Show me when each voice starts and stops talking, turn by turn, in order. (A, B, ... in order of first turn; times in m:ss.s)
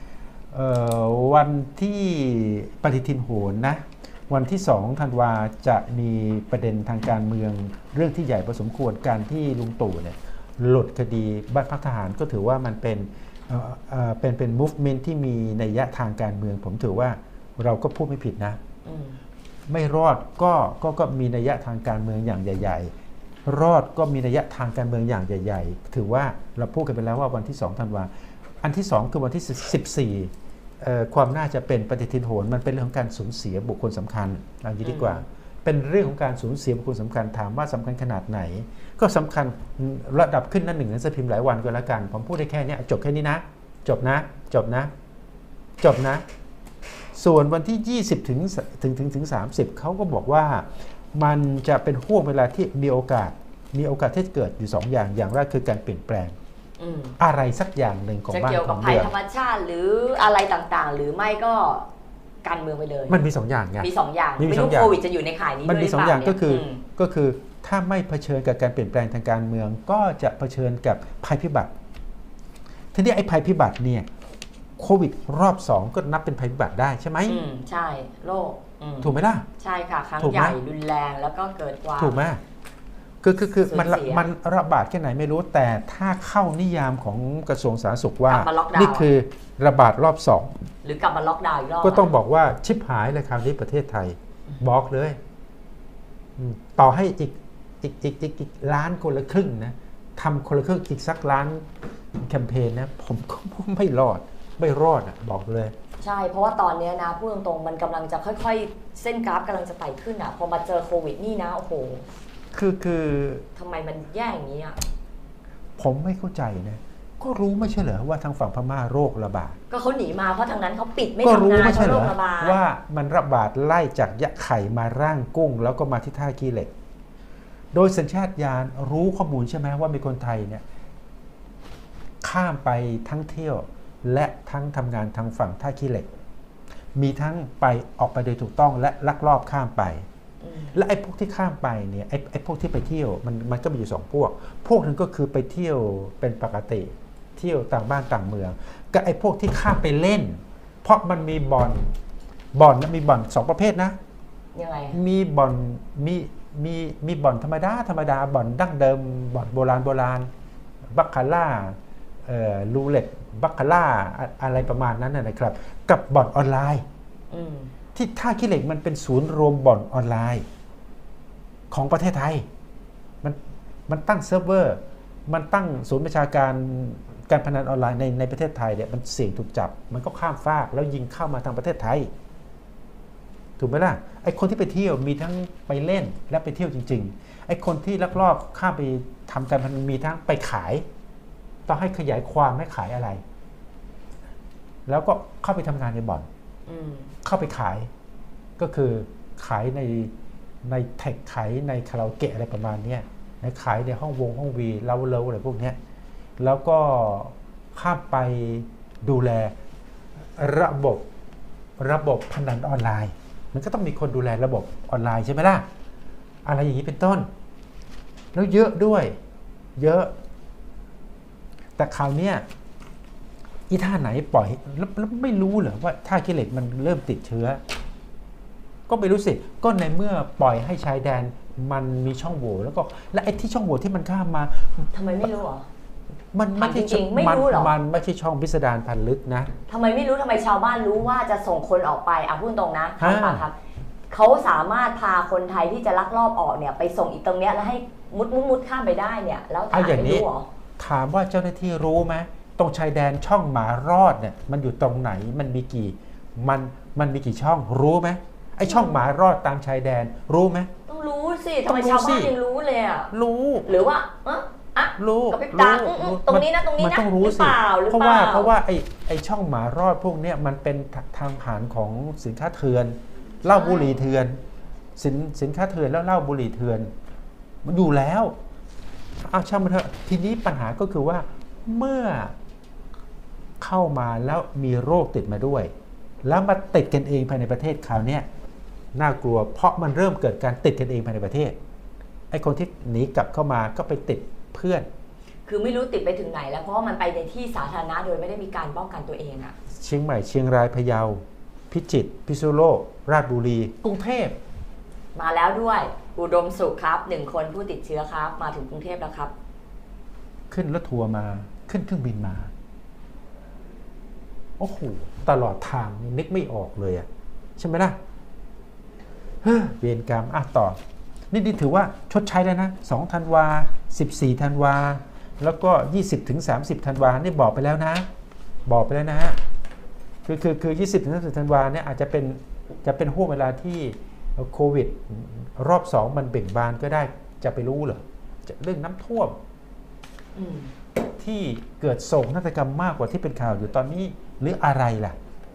0:00.5-0:18.6 A
0:18.9-0:19.2 B
0:19.7-0:22.9 A
0:23.5-0:28.1 A
0:28.6-0:44.9 A
0:34.8-0:35.2 B
0:45.8-0:46.2 A
0:47.1-0:56.3 A
0:56.8-0:57.2 B
0:57.2-0:59.1 A
0:58.3-1:01.9 B
1:02.4-1:03.2 B
1:03.1-1:05.0 A
1:03.8-1:06.8 B
1:05.6-1:11.7 A
1:12.9-1:14.1 A
1:14.8-1:17.4 A
1:17.3-1:22.2 B
1:19.0-1:19.4 A
1:20.2-1:20.6 A
1:22.0-1:22.4 A
1:23.2-1:30.6 A
1:23.6-1:24.2 B
1:28.3-1:29.1 B
1:30.8-1:32.1 B
1:31.8-1:35.2 A
1:36.4-1:45.7 A
1:46.0-1:52.0 B
1:52.5-1:53.4 A
1:53.6-1:54.8 B
1:55.8-1:59.6 A
1:59.7-2:02.6 B
2:01.2-2:06.7 A
2:07.7-2:10.6 A
2:12.2-2:16.1 A
2:17.0-2:20.1 A
2:20.4-2:20.8 B
2:20.7-2:31.9 A
2:32.5-2:34.0 A
2:34.6-2:35.0 B
2:34.9-2:40.3 A
2:40.9-2:46.8 A
2:47.3-2:47.7 B
2:48.0-2:50.4 A
2:51.7-2:52.5 A
2:53.2-3:02.1 A
3:03.6-3:10.8 A
3:11.7-3:13.2 A
3:14.9-3:16.3 A
3:16.7-3:17.1 B
3:17.2-3:17.9 A
3:18.6-3:20.1 A
3:20.6-3:25.8 A
3:26.4-3:29.5 A
3:30.4-3:31.1 A
3:31.8-3:35.6 A
3:36.4-3:37.3 A
3:38.3-3:39.2 A
3:39.8-3:40.1 A
3:41.8-3:42.4 A
3:43.7-3:47.6 A
3:48.9-3:54.9 A
3:54.9-3:55.7 B
3:56.3-3:59.5 A
3:56.6-3:57.7 B
3:59.7-4:03.5 B
4:03.0-4:03.5 A
4:04.1-4:10.5 B
4:09.7-4:10.2 A
4:10.8-4:20.7 A
4:18.7-4:18.9 B
4:20.9-4:23.1 B
4:21.7-4:22.3 A
4:23.1-4:23.8 A
4:23.7-4:28.5 B
4:25.0-4:34.4 A
4:33.5-4:34.0 B
4:35.0-4:36.9 A
4:37.6-4:38.3 A
4:39.2-4:42.4 A
4:43.6-4:45.7 A
4:46.2-4:48.2 A
4:48.9-4:51.6 A
4:52.3-4:54.9 A
4:55.5-4:59.6 B
4:59.8-5:04.4 A
5:05.2-5:09.3 B
5:10.5-5:12.5 A
5:14.6-5:18.0 A
5:19.4-5:20.8 A
5:21.3-5:28.1 A
5:28.7-5:29.4 A
5:30.2-5:39.4 A
5:40.4-5:40.7 B
5:41.2-5:45.2 A